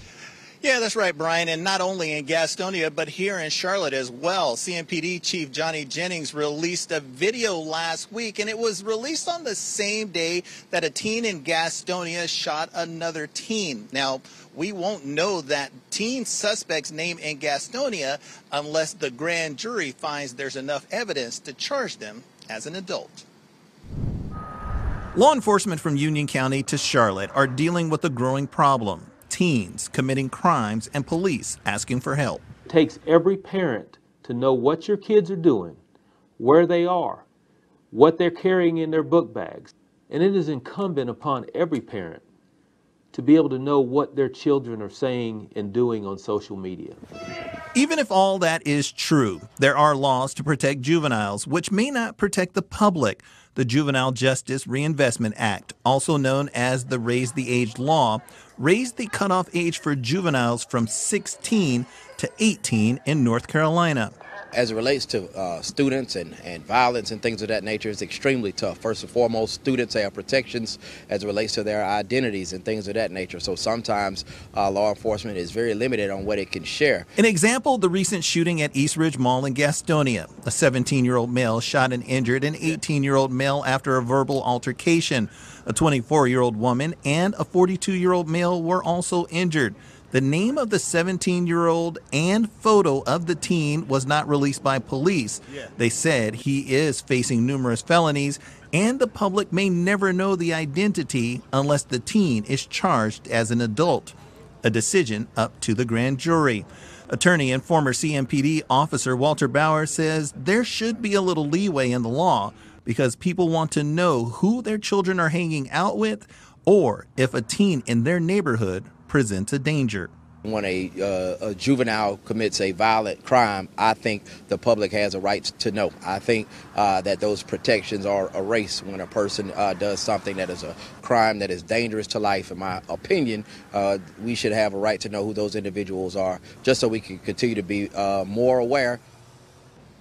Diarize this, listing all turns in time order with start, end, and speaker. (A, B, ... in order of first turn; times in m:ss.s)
0:00.6-0:23.2 A
0:25.1-0:32.4 A
0:32.7-0:35.8 B
0:36.4-0:37.2 B
0:37.9-0:42.2 B
0:43.1-0:47.0 B
0:47.7-1:04.1 A
1:04.5-1:17.0 C
1:17.2-2:00.1 A
2:00.4-2:19.0 C